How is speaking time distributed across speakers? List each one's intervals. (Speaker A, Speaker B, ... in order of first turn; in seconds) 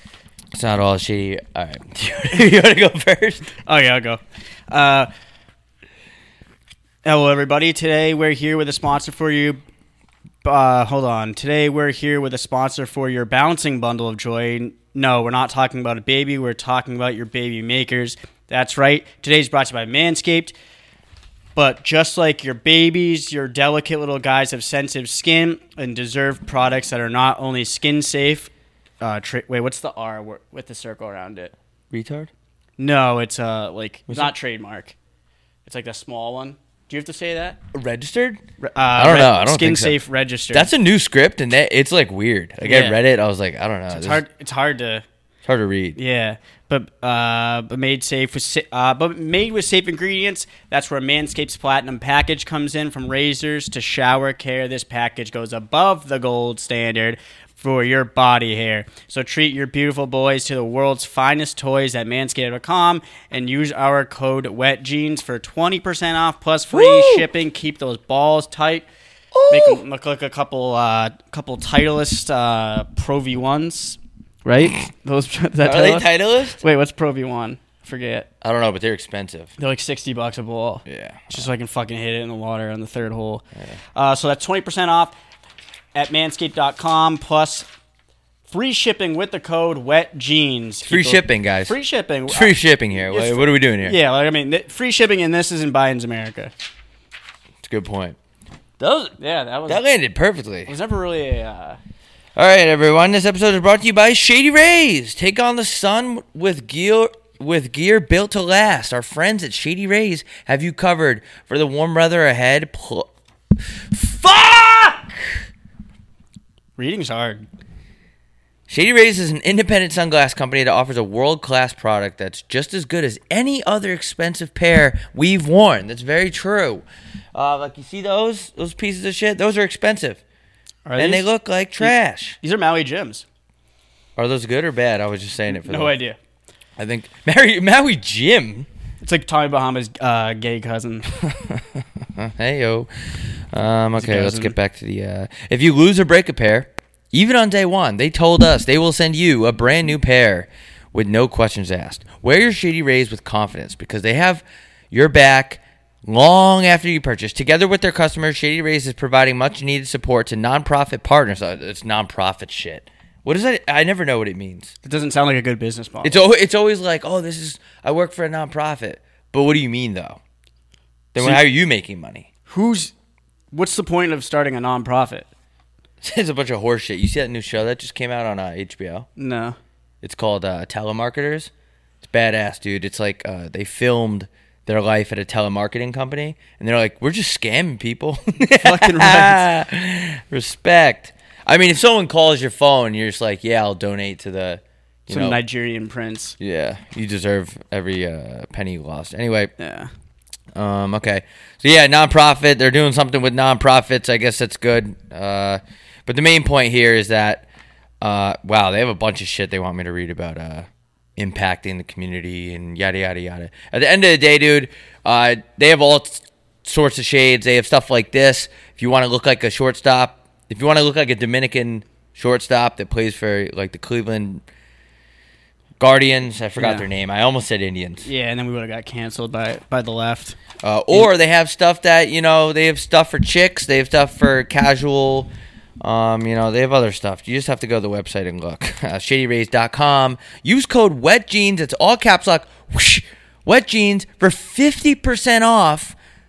Speaker A: 0.5-3.5, 31.9-32.3, 37.7-38.4, 39.0-40.0, 40.5-44.2, 45.4-46.0, 66.7-67.2, 69.3-69.8, 75.6-76.6, 78.4-79.5, 80.8-81.5, 90.8-91.8, 92.3-94.0, 97.6-98.2, 98.8-99.2, 99.7-100.7, 102.3-113.1, 113.9-115.4, 118.7-126.8, 127.3-130.2, 131.0-132.4, 134.2-135.9, 136.8-138.7, 141.4-164.7, 166.0-170.2, 171.1-172.3, 176.0-179.1, 180.0-181.5, 182.0-195.4, 196.4-199.5, 200.5-207.4, 208.0-224.4, 225.8-228.1, 230.6-235.3, 235.8-245.9
Speaker B: 3.6-5.1, 7.0-9.6, 10.4-20.5, 21.6-28.5, 29.0-31.5, 32.8-34.9, 35.6-37.6, 38.6-40.7, 42.6-43.0, 43.9-45.0, 46.0-68.9, 69.5-78.3, 79.6-83.4, 83.9-85.1, 85.9-87.7, 88.5-96.5, 99.2-99.8, 100.7-101.8, 116.8-117.4, 130.8-131.3, 131.8-133.2, 135.5-136.2, 139.0-141.2, 144.0-144.5, 164.8-166.2, 171.2-171.4, 172.5-172.9, 173.5-175.3, 179.2-179.6, 188.5-189.4, 195.1-196.3, 199.6-199.9, 226.6-226.8, 228.0-230.4